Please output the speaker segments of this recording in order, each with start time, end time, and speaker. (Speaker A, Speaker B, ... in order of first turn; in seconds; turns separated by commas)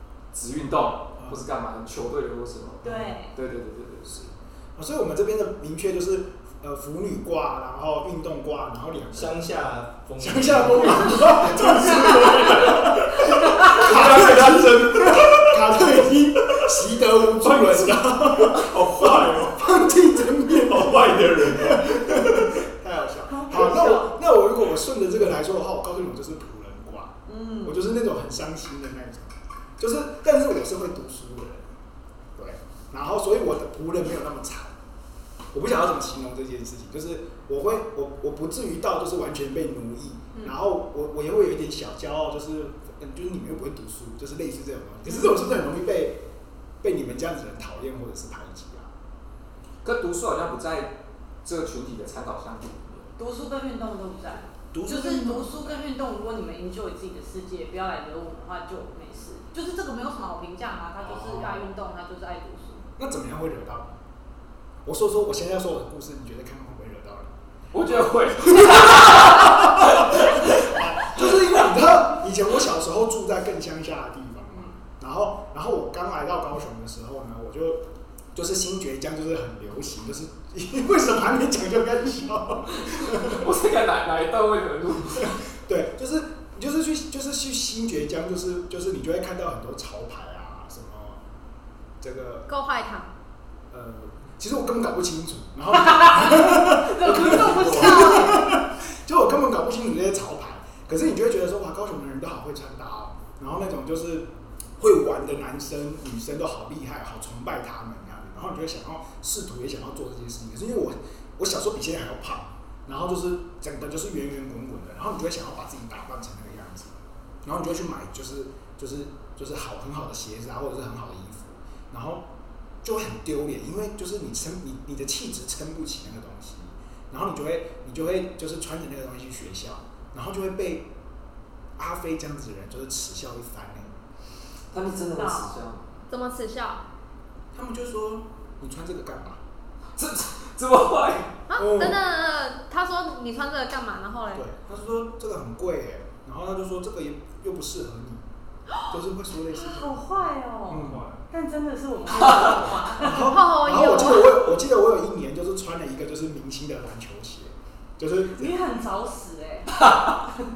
Speaker A: 0.3-4.2, Speaker B: 2.8-3.3, Speaker C: 2.8-3.2, Speaker C: 4.1-9.4, Speaker D: 9.1-16.7, Speaker C: 10.2-31.7, Speaker B: 10.9-13.8, Speaker D: 17.4-22.6, Speaker B: 23.3-24.2, Speaker B: 27.3-27.8, Speaker C: 32.4-34.7, Speaker C: 35.5-46.2, Speaker C: 46.8-48.9, Speaker A: 49.8-53.1, Speaker B: 53.2-62.9, Speaker C: 54.7-55.7, Speaker C: 61.0-61.6, Speaker C: 63.0-64.0, Speaker C: 64.8-67.3, Speaker A: 67.7-71.3, Speaker C: 68.5-83.5, Speaker A: 82.9-85.4, Speaker C: 85.2-91.2, Speaker C: 92.0-92.5, Speaker E: 92.5-93.1, Speaker C: 93.7-122.2, Speaker B: 95.7-98.6, Speaker C: 122.8-130.9, Speaker C: 131.8-133.9, Speaker A: 134.7-135.8, Speaker B: 135.1-135.6, Speaker E: 136.1-136.8, Speaker C: 137.5-139.4, Speaker A: 140.0-141.4, Speaker E: 141.5-144.5, Speaker C: 141.5-142.0, Speaker C: 144.3-148.2, Speaker C: 148.9-150.0, Speaker B: 149.5-153.3, Speaker C: 150.7-151.2, Speaker D: 150.8-151.2, Speaker A: 152.2-152.6, Speaker C: 152.3-158.6, Speaker E: 153.0-154.4, Speaker B: 158.3-159.9, Speaker A: 159.8-160.2